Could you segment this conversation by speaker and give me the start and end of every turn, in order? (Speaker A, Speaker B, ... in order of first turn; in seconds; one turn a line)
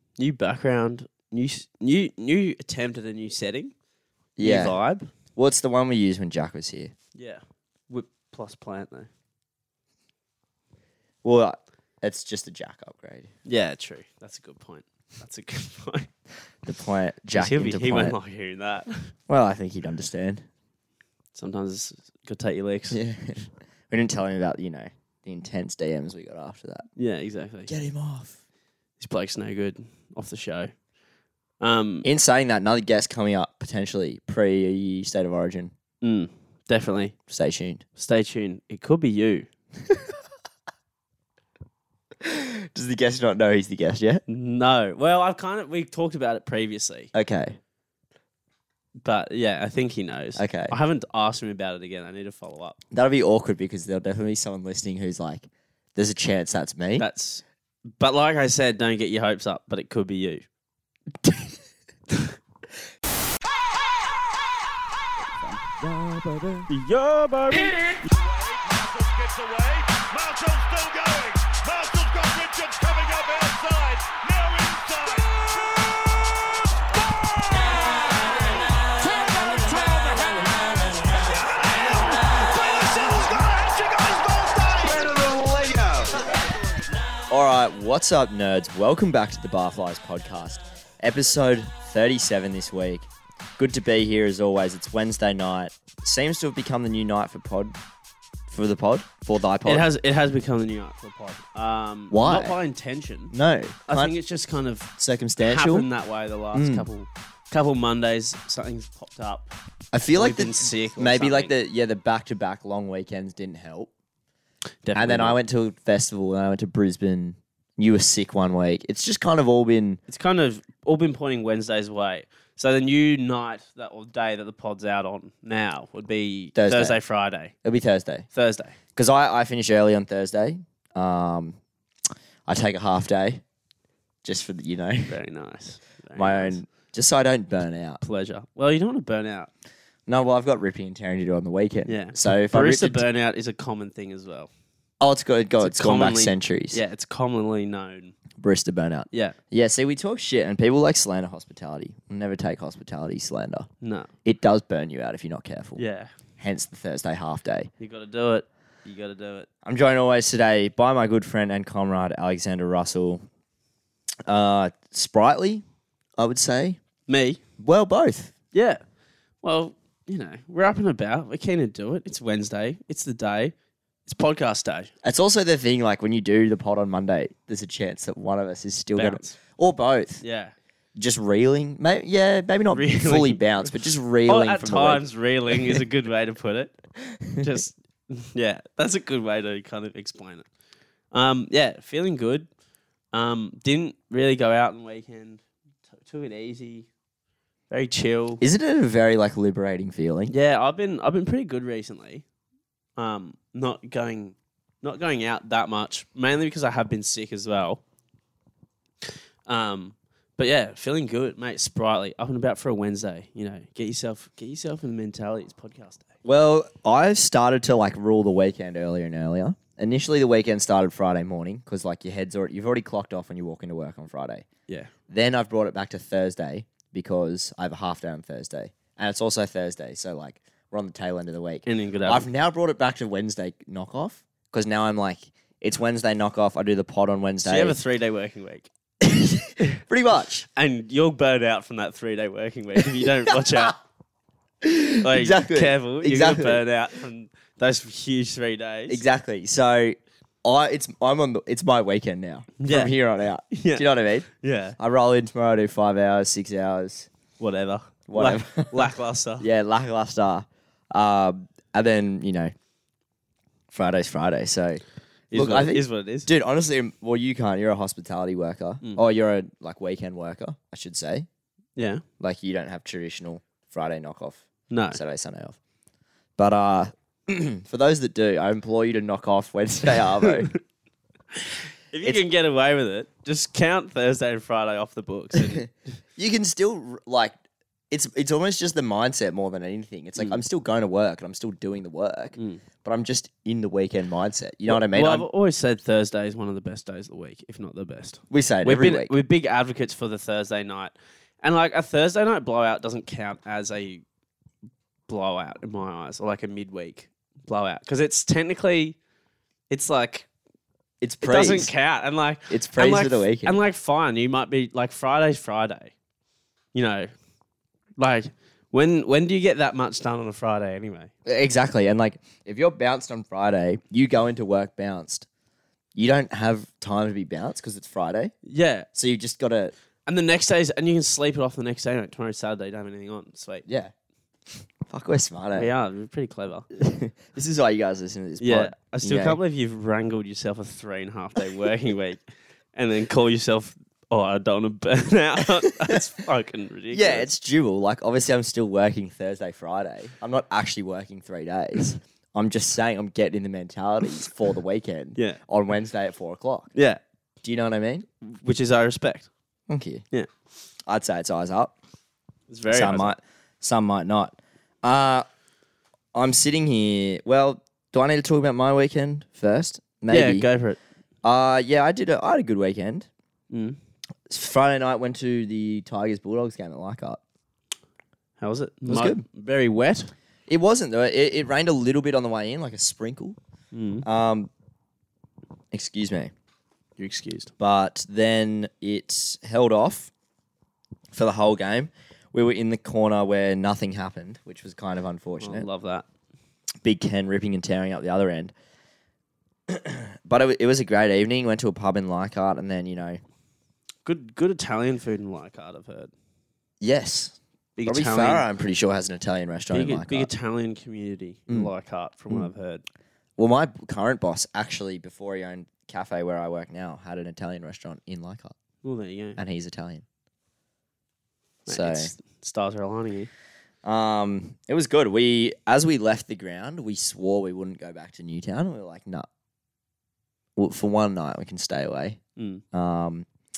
Speaker A: 0.2-3.7
Speaker B: 4.4-4.8
Speaker A: 4.4-5.1
Speaker B: 5.4-6.9
Speaker A: 7.2-9.1
Speaker B: 11.2-13.3
Speaker A: 13.5-16.1
Speaker B: 16.6-18.2
Speaker A: 17.3-19.1
Speaker B: 19.3-20.4
Speaker A: 21.3-23.0
Speaker B: 22.9-26.9
Speaker A: 27.0-27.7
Speaker B: 27.7-28.4
Speaker A: 29.0-30.7
Speaker A: 31.6-32.1
Speaker B: 32.0-35.7
Speaker A: 36.0-37.1
Speaker B: 37.3-37.8
Speaker A: 38.0-39.5
Speaker B: 42.2-44.2
Speaker A: 44.3-47.1
Speaker B: 47.1-47.6
Speaker A: 49.0-52.8
Speaker B: 50.4-50.7
Speaker B: 52.9-57.1
Speaker A: 57.0-57.4
Speaker A: 58.0-60.5
Speaker B: 61.2-61.6
Speaker B: 65.2-66.7
Speaker A: 66.7-68.0
Speaker C: 67.9-75.6
Speaker C: 77.0-86.5
Speaker B: 87.3-97.8
Speaker B: 98.5-99.9
Speaker A: 99.7-103.3
Speaker B: 102.1-102.6
Speaker B: 103.3-104.1
Speaker A: 103.9-109.5
Speaker B: 105.0-105.9
Speaker B: 106.5-106.9
Speaker B: 109.9-113.9
Speaker A: 110.1-111.5
Speaker A: 114.8-115.4
Speaker B: 114.9-120.0
Speaker A: 120.1-127.5
Speaker B: 126.5-127.0
Speaker B: 127.6-128.3
Speaker A: 128.3-128.8
Speaker B: 129.0-131.6
Speaker B: 132.5-133.4
Speaker B: 134.2-135.1
Speaker A: 135.1-136.6
Speaker B: 136.2-138.0
Speaker A: 138.0-139.5
Speaker B: 140.1-143.0
Speaker A: 141.9-144.5
Speaker B: 145.0-146.8
Speaker A: 145.6-148.2
Speaker B: 148.4-153.7
Speaker A: 149.1-149.4
Speaker A: 153.8-154.1
Speaker B: 154.2-155.8
Speaker A: 155.8-156.1
Speaker B: 156.4-157.7
Speaker A: 157.8-159.5
Speaker B: 159.6-163.2
Speaker B: 164.3-165.6
Speaker B: 166.2-166.8
Speaker A: 167.1-167.4
Speaker B: 167.6-168.3
Speaker A: 168.5-168.8
Speaker A: 169.4-173.5
Speaker A: 174.1-174.9
Speaker B: 175.0-180.2
Speaker A: 178.9-179.4
Speaker A: 180.2-180.5
Speaker B: 181.0-185.8
Speaker A: 182.7-186.8
Speaker B: 187.1-187.5
Speaker A: 187.4-190.5
Speaker A: 191.1-192.5
Speaker A: 193.1-195.4
Speaker A: 196.0-196.9
Speaker A: 197.7-198.4
Speaker B: 198.4-200.3
Speaker A: 200.3-202.2
Speaker A: 203.0-207.8
Speaker A: 209.5-216.1
Speaker B: 216.2-224.5
Speaker B: 225.1-237.8
Speaker A: 231.7-232.3
Speaker A: 237.4-238.7
Speaker B: 239.0-240.5
Speaker A: 240.6-243.8
Speaker B: 243.0-243.7
Speaker B: 244.6-246.6
Speaker A: 245.0-249.0
Speaker B: 248.9-257.1
Speaker A: 252.6-252.9
Speaker A: 253.5-254.8
Speaker A: 257.4-259.5
Speaker B: 258.1-262.5
Speaker B: 263.7-264.8
Speaker A: 265.3-266.3
Speaker B: 265.3-271.3
Speaker A: 271.8-272.0
Speaker B: 272.2-275.6
Speaker A: 274.7-275.0
Speaker B: 276.4-280.5
Speaker A: 281.3-285.7
Speaker B: 285.5-287.3
Speaker B: 287.9-295.3
Speaker A: 292.4-292.6
Speaker A: 294.7-304.0
Speaker B: 298.3-299.1
Speaker A: 305.1-309.0
Speaker A: 309.7-310.3
Speaker B: 311.0-311.7
Speaker A: 311.2-315.9
Speaker B: 312.5-313.6
Speaker A: 316.7-317.1
Speaker A: 318.0-321.1
Speaker B: 321.2-325.3
Speaker B: 325.9-328.3
Speaker A: 328.5-328.9
Speaker B: 328.9-329.7
Speaker A: 330.1-333.7
Speaker B: 333.7-333.9
Speaker B: 334.9-335.7
Speaker A: 335.6-336.7
Speaker B: 336.8-339.4
Speaker A: 338.4-342.2
Speaker A: 342.8-347.3
Speaker B: 346.9-356.7
Speaker A: 356.8-357.0
Speaker B: 357.4-358.1
Speaker A: 358.2-359.3
Speaker B: 359.7-360.0
Speaker B: 360.9-361.8
Speaker A: 362.5-363.2
Speaker B: 362.7-365.3
Speaker B: 366.1-370.4
Speaker A: 370.1-370.8
Speaker B: 371.2-373.1
Speaker A: 373.5-373.8
Speaker B: 374.3-377.2
Speaker A: 378.4-380.1
Speaker B: 378.9-379.2
Speaker B: 380.5-383.4
Speaker A: 383.7-384.1
Speaker B: 384.0-384.5
Speaker B: 385.7-386.3
Speaker A: 387.0-387.5
Speaker B: 387.6-390.1
Speaker B: 391.1-395.7
Speaker A: 395.4-396.1
Speaker B: 396.8-398.5
Speaker B: 399.7-403.2
Speaker A: 404.1-406.1
Speaker B: 406.8-410.3
Speaker A: 407.8-408.5
Speaker A: 409.7-412.8
Speaker B: 413.4-418.6
Speaker A: 418.8-419.4
Speaker B: 419.4-420.0
Speaker B: 421.7-422.1
Speaker A: 421.7-423.3
Speaker B: 423.8-429.3
Speaker B: 430.6-432.2
Speaker A: 432.4-432.6
Speaker B: 432.7-433.3